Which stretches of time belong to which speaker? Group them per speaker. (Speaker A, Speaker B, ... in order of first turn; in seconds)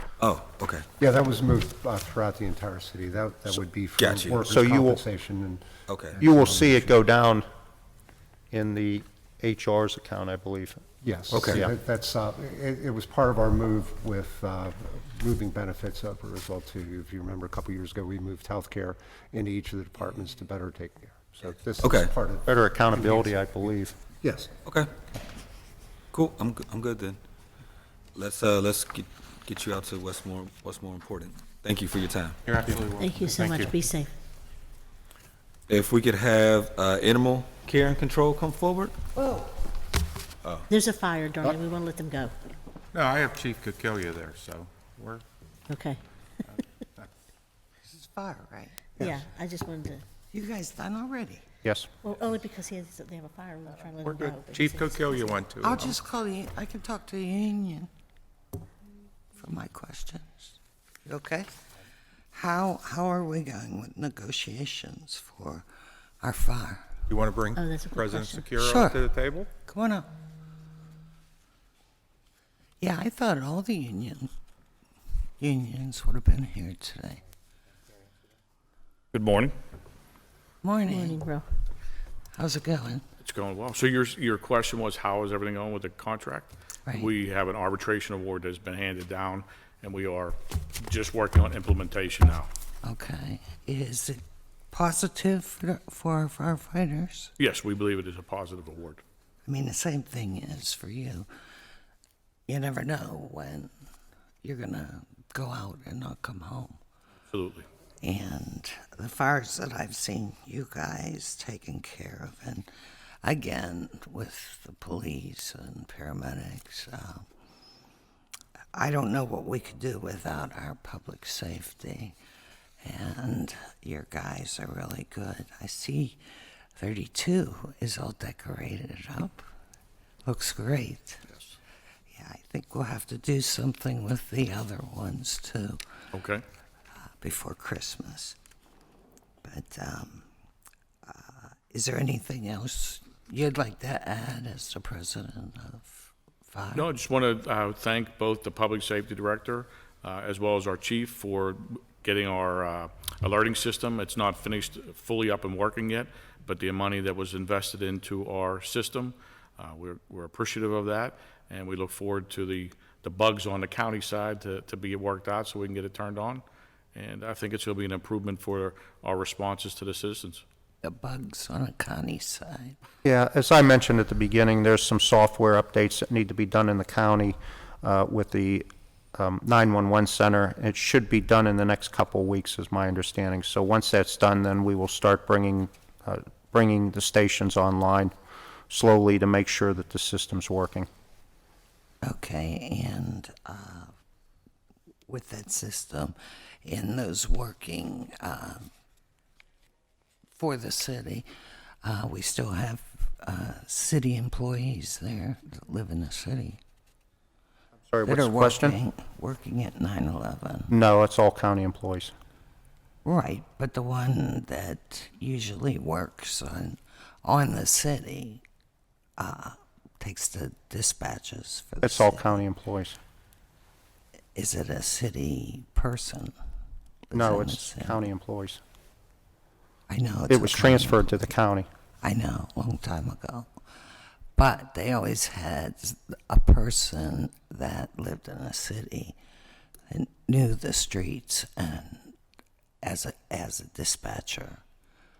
Speaker A: 0.2-0.8, 4.0-4.5, 5.9-6.2, 11.3-11.7, 21.8-22.1, 24.6-24.9, 26.1-27.2, 28.1-32.4, 35.7-39.0
Speaker B: 1.0-6.9, 11.0-23.4, 24.2-24.5
Speaker C: 4.5-5.0, 6.2-7.4, 8.5-10.8, 11.5-11.7, 22.4-24.0, 51.6-51.9, 173.0-188.1, 188.7-190.9, 207.9-208.8, 210.7-212.1, 221.8-223.0, 227.1-228.6, 230.3-231.7
Speaker D: 32.5-33.8, 42.9-45.2, 54.0-55.9, 67.1-69.5
Speaker E: 32.9-34.1, 40.7-42.3, 45.7-46.0, 49.0-50.0, 52.0-55.5, 67.5-68.6, 80.9-81.4
Speaker F: 47.8-48.9, 50.3-51.4, 55.6-57.9, 59.4-61.5, 62.3-65.7, 66.2-66.8, 68.6-69.1, 69.7-70.1, 72.8-74.3, 75.4-77.2, 80.6-81.2, 82.3-83.0, 92.8-97.3, 99.5-101.3, 102.5-103.7, 104.4-106.8, 108.0-112.7, 113.2-117.2, 118.7-122.1, 122.8-126.2, 126.7-129.4, 130.2-131.2, 132.1-135.8, 137.2-138.4, 139.4-140.3, 141.0-146.9, 170.8-172.8, 192.0-193.9, 195.1-198.7, 200.3-201.3, 201.8-206.6, 208.0-210.7, 213.0-218.4, 219.2-222.4, 224.3-226.3, 227.1-228.0, 229.9-231.3, 232.0-233.6, 234.3-239.2, 239.9-242.1, 242.8-244.6
Speaker G: 79.1-79.5, 83.2-92.5, 97.4-99.0, 107.3-107.7, 136.1-136.4, 146.7-170.4